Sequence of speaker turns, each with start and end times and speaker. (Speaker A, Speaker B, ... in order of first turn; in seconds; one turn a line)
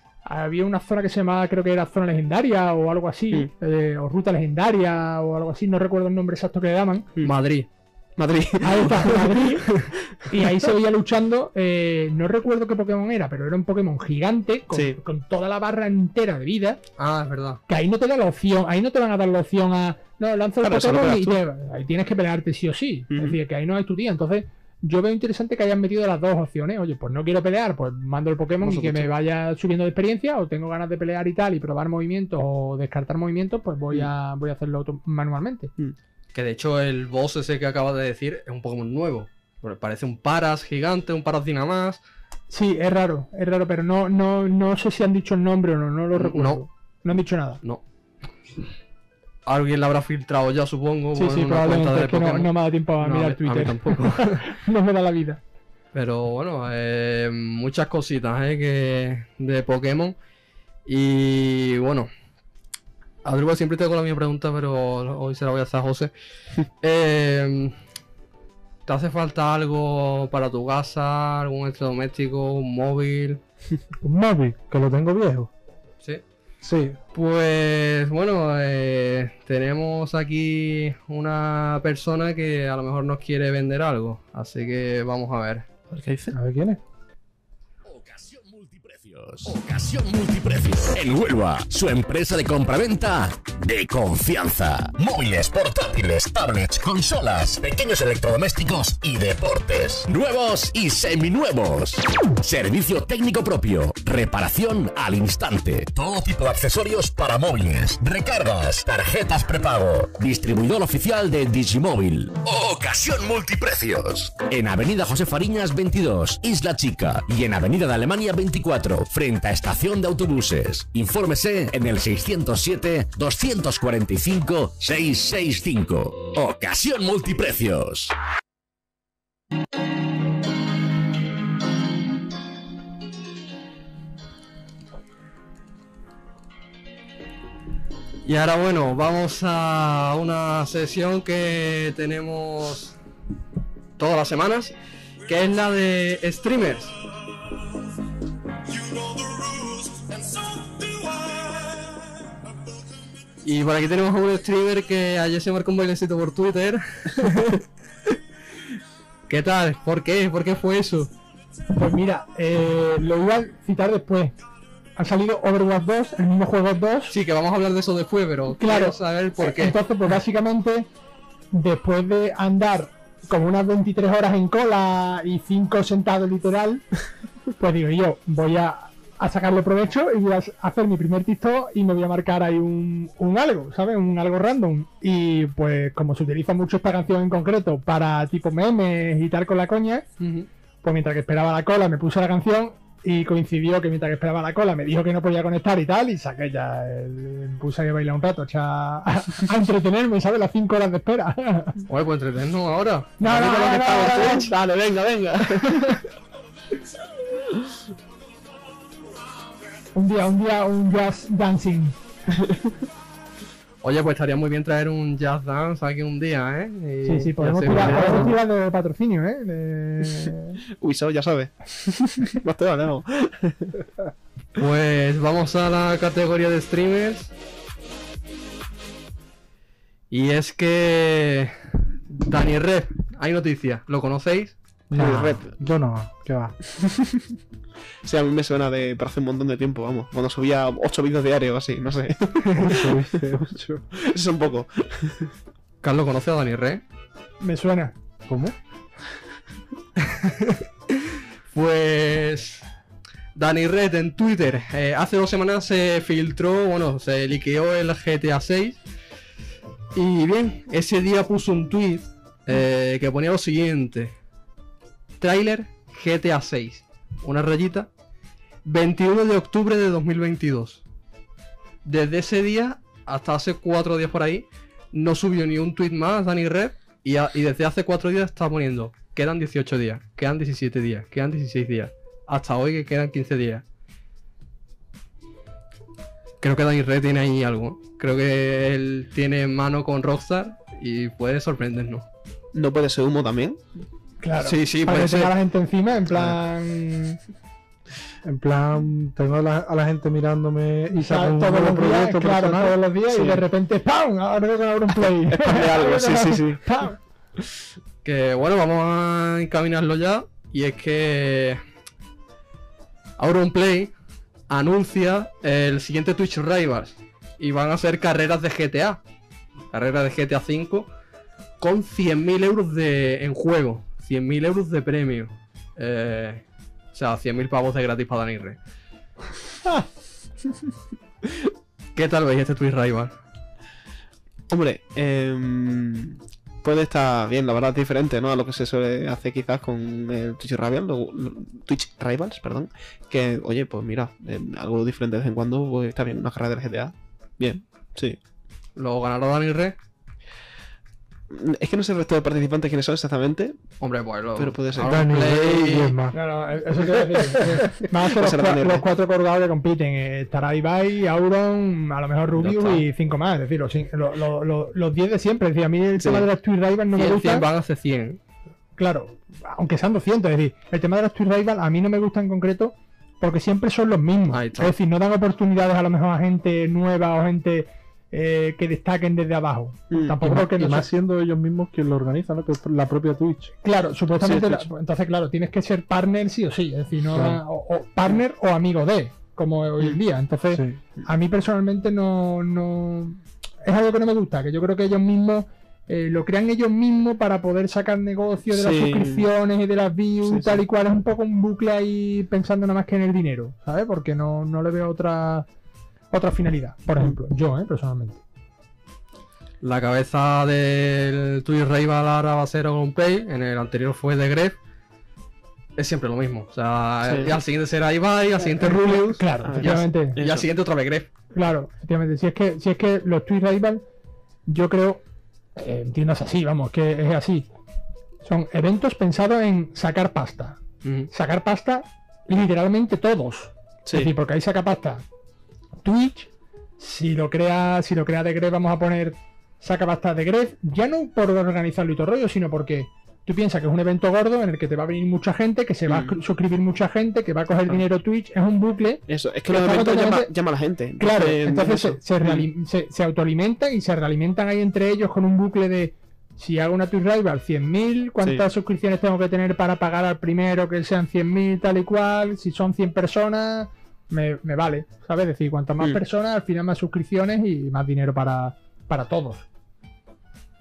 Speaker A: 0.2-7.1
Speaker B: 7.2-7.7
Speaker C: 8.2-10.2
Speaker A: 8.6-16.8
Speaker B: 8.9-9.3
Speaker C: 14.7-15.0
Speaker B: 17.0-17.6
Speaker A: 17.7-35.7
Speaker C: 20.6-21.4
Speaker C: 23.1-23.4
Speaker C: 28.6-29.1
Speaker B: 36.3-42.0
Speaker A: 42.5-47.6
Speaker B: 46.1-46.6
Speaker B: 49.5-54.5
Speaker A: 51.1-55.4
Speaker B: 55.9-60.1
Speaker B: 60.9-62.1
Speaker B: 63.2-66.1
Speaker B: 66.8-67.8
Speaker B: 68.8-73.4
Speaker D: 74.0-75.5
Speaker D: 76.6-77.0
Speaker B: 77.1-85.7
Speaker C: 85.9-86.3
Speaker D: 86.3-86.8
Speaker E: 87.9-128.1
Speaker B: 138.2-142.9
Speaker B: 144.0-144.7
Speaker B: 145.2-146.9
Speaker B: 148.9-152.0
Speaker B: 153.4-157.6
Speaker B: 159.3-161.1
Speaker A: 161.7-164.3
Speaker A: 165.0-167.2
Speaker B: 167.1-169.8
Speaker A: 168.5-170.9
Speaker A: 171.5-176.8
Speaker A: 177.6-190.1
Speaker B: 190.2-190.5
Speaker A: 190.8-201.8
Speaker B: 201.9-203.2
Speaker A: 203.2-204.5
Speaker C: 203.2-206.0
Speaker A: 209.9-212.0
Speaker B: 213.8-218.3
Speaker A: 217.0-220.6
Speaker C: 217.7-218.3
Speaker C: 220.8-223.8
Speaker B: 224.6-227.3
Speaker B: 230.1-234.5
Speaker A: 234.9-235.2
Speaker D: 234.9-236.5
Speaker C: 234.9-235.5
Speaker C: 236.8-237.2
Speaker C: 238.0-243.2
Speaker D: 242.5-243.9
Speaker C: 244.0-245.3
Speaker B: 245.8-246.8
Speaker A: 247.4-247.9
Speaker D: 248.2-248.5
Speaker B: 250.2-250.6
Speaker B: 251.5-252.7
Speaker B: 253.3-258.8
Speaker B: 259.9-264.1
Speaker B: 265.2-267.9
Speaker B: 268.6-270.8
Speaker B: 271.8-283.6
Speaker B: 286.4-292.1
Speaker C: 292.5-293.6
Speaker A: 294.2-297.2
Speaker B: 294.4-295.3
Speaker D: 298.2-303.3
Speaker A: 301.0-307.0
Speaker C: 305.3-306.6
Speaker B: 308.0-311.6
Speaker B: 313.2-313.9
Speaker B: 314.5-319.0
Speaker B: 319.7-320.9
Speaker B: 321.6-328.6
Speaker B: 331.9-333.1
Speaker C: 334.5-348.2
Speaker B: 348.8-349.8
Speaker C: 351.3-353.6
Speaker B: 353.8-355.9
Speaker C: 354.4-355.2
Speaker D: 354.8-356.2
Speaker A: 356.1-367.4
Speaker D: 357.1-357.6
Speaker C: 358.1-358.8
Speaker B: 362.4-362.9
Speaker C: 366.0-366.3
Speaker B: 366.9-368.2
Speaker A: 368.8-380.9
Speaker B: 374.3-374.7
Speaker C: 379.9-380.2
Speaker D: 380.2-383.5
Speaker A: 383.6-405.5
Speaker D: 384.2-384.6
Speaker D: 387.1-387.4
Speaker D: 390.5-390.8
Speaker C: 398.5-399.3
Speaker C: 400.3-400.6
Speaker A: 406.1-408.2
Speaker B: 409.6-414.6
Speaker B: 415.8-421.1
Speaker C: 417.0-417.4
Speaker A: 418.6-420.2
Speaker C: 419.4-420.5
Speaker A: 421.3-423.8
Speaker A: 424.5-425.0
Speaker A: 425.6-427.5
Speaker A: 428.2-430.6
Speaker B: 430.8-431.1
Speaker A: 431.1-435.0
Speaker C: 433.8-434.1
Speaker A: 435.8-450.3
Speaker C: 445.9-446.1
Speaker C: 449.1-452.5
Speaker A: 451.0-469.4